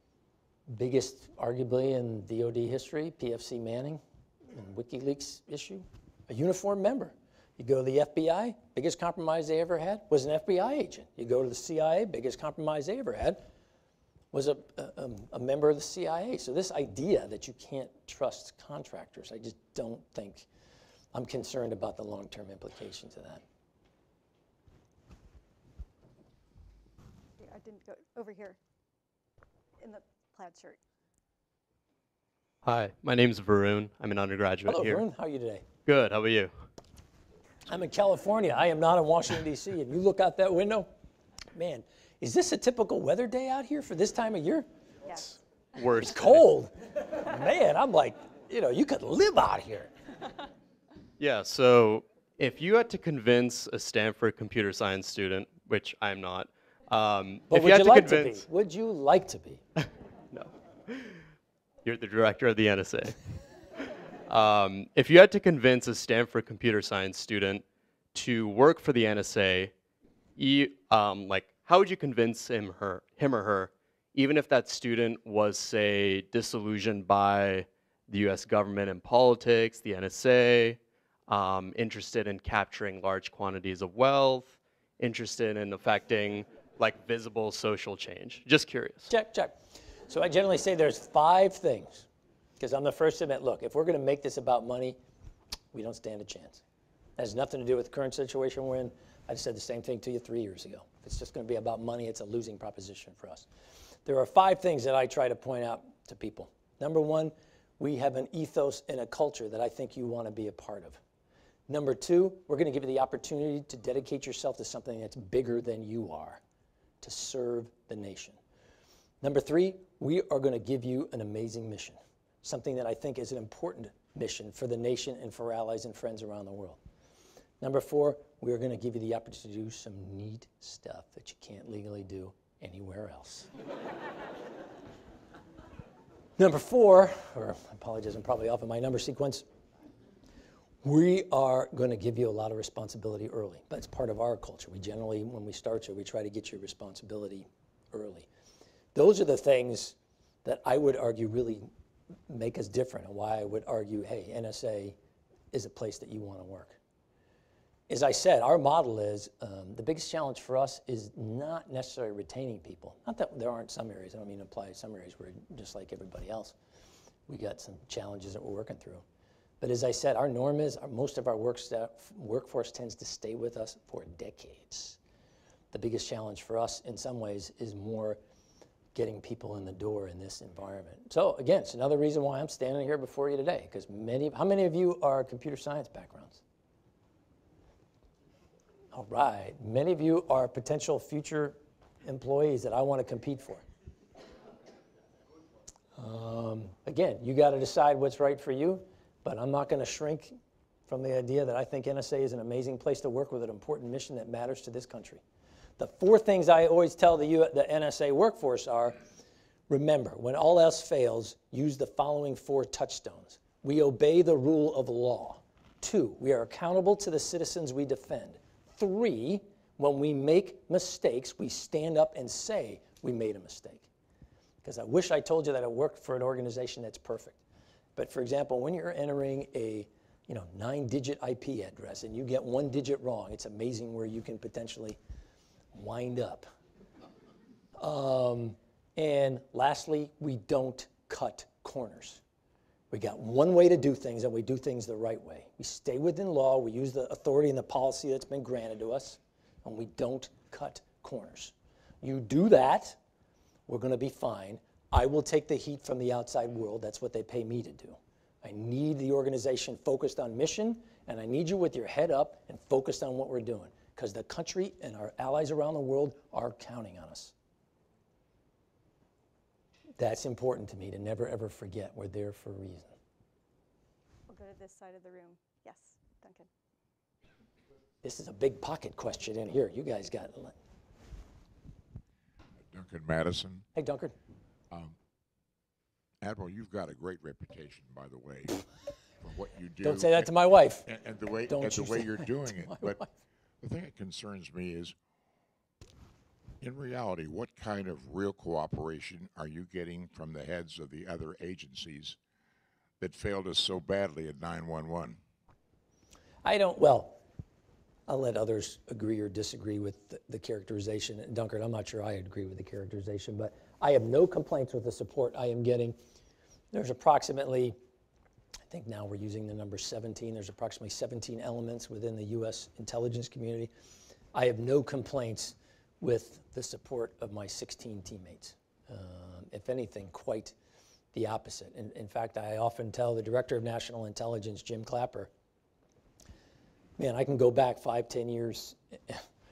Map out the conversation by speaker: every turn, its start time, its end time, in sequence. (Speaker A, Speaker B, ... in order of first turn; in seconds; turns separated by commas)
Speaker A: 0.7-13.4, Speaker A: 14.3-20.5, Speaker A: 21.1-23.4, Speaker B: 27.4-28.6, Speaker B: 29.8-30.8, Speaker C: 32.6-35.0, Speaker A: 34.6-35.7, Speaker C: 35.8-36.5, Speaker A: 37.6-40.9, Speaker A: 41.5-44.6, Speaker C: 45.1-46.5, Speaker A: 46.0-49.9, Speaker C: 51.2-58.4, Speaker A: 57.5-59.6, Speaker C: 59.8-61.2, Speaker C: 61.8-63.2, Speaker C: 64.3-69.7, Speaker C: 70.4-89.1, Speaker A: 89.1-89.5, Speaker A: 90.1-92.1, Speaker A: 92.6-95.0, Speaker A: 95.7-96.6, Speaker A: 97.2-103.5, Speaker A: 104.0-111.0, Speaker A: 111.7-116.4, Speaker A: 117.0-118.4, Speaker A: 119.2-126.8, Speaker A: 127.6-133.5, Speaker A: 136.4-139.4, Speaker A: 140.8-148.3, Speaker A: 148.9-151.7, Speaker A: 152.3-155.0, Speaker A: 155.5-156.8, Speaker A: 157.9-166.6, Speaker A: 167.3-169.0, Speaker A: 169.6-175.0, Speaker A: 175.7-178.2, Speaker A: 178.9-186.4, Speaker A: 188.9-193.6, Speaker A: 195.9-205.2, Speaker A: 205.8-209.0, Speaker A: 209.7-223.9, Speaker A: 224.6-227.4, Speaker A: 227.9-235.0, Speaker A: 235.7-236.5, Speaker A: 237.8-242.2, Speaker A: 242.9-253.0, Speaker A: 253.7-267.3, Speaker A: 270.0-272.9, Speaker B: 274.3-276.5, Speaker A: 278.0-280.6, Speaker D: 282.7-283.7, Speaker A: 283.7-284.1, Speaker D: 286.2-288.6, Speaker D: 289.2-290.3, Speaker A: 289.8-290.9, Speaker D: 290.9-293.0, Speaker A: 291.5-293.1, Speaker D: 293.6-294.9, Speaker D: 296.6-302.2, Speaker D: 303.0-305.2, Speaker A: 306.4-307.2, Speaker A: 308.1-315.9, Speaker A: 316.7-317.8, Speaker A: 318.7-323.7, Speaker A: 324.3-330.5, Speaker A: 331.1-335.3, Speaker A: 337.0-339.2